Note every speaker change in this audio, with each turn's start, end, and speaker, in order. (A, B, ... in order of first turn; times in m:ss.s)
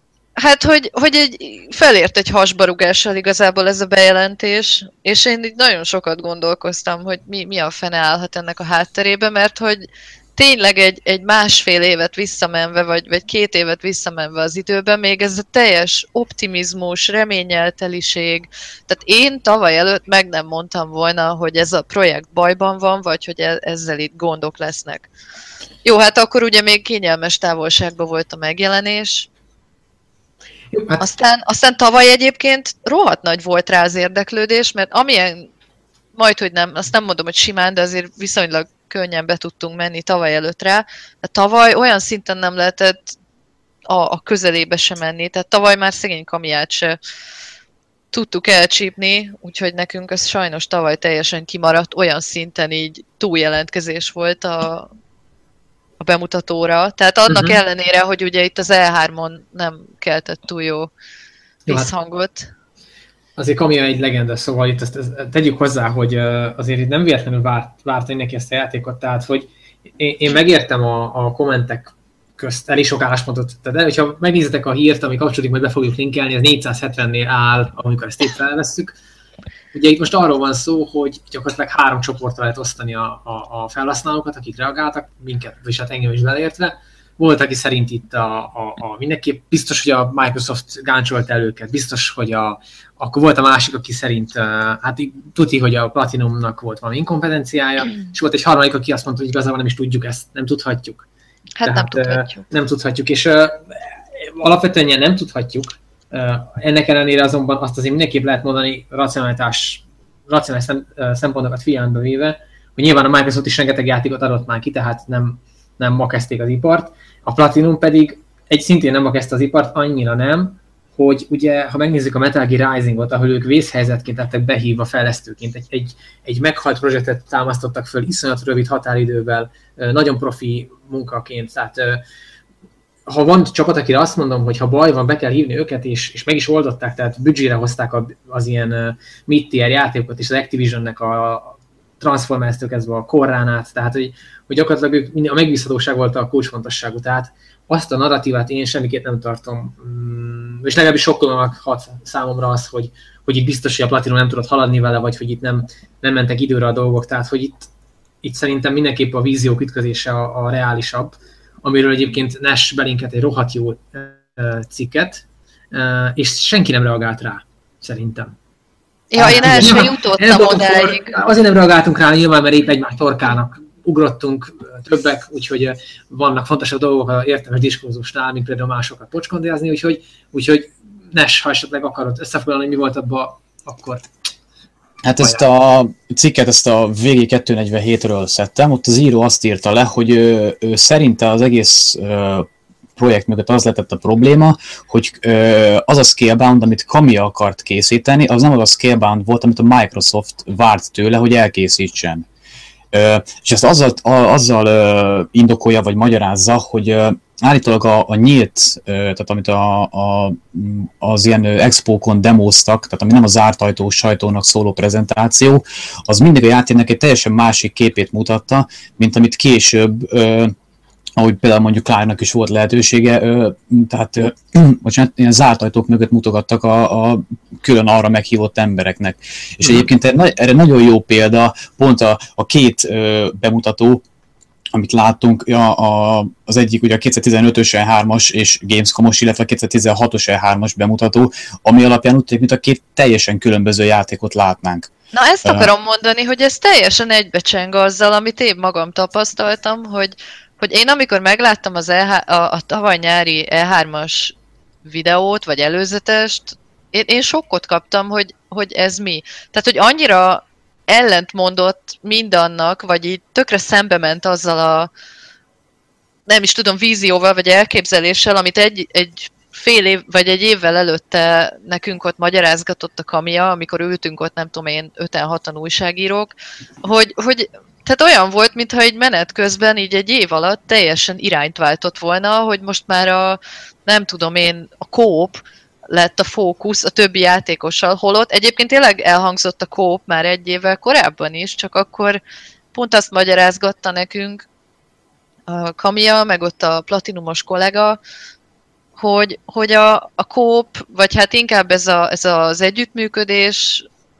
0:00.4-0:25.1 A
0:25.8-0:29.3 A
0:30.7-0:31.0 B
0:31.0-0:35.5 A
0:36.2-0:43.2 A
0:43.9-0:47.0 A
0:48.1-0:54.9 A
0:56.0-1:00.9 A
0:57.3-0:57.6 B
1:01.7-1:02.5 A
1:03.4-1:19.0 B
1:19.7-1:41.1 B
1:41.6-1:42.4 A
1:41.6-2:12.0 B
2:13.1-2:37.7 B
2:38.2-2:48.3 B
2:49.1-2:51.2 A
2:49.2-3:04.1 B
3:05.0-3:22.3 C
3:05.2-3:05.5 B
3:22.9-3:40.5 C
3:41.2-3:54.0 C
3:54.8-4:04.9 C
4:05.1-4:24.9 A
4:05.4-4:05.7 C
4:26.3-4:52.2 A
4:52.7-4:54.5 A
4:55.5-4:58.0 A
4:59.0-5:03.8 A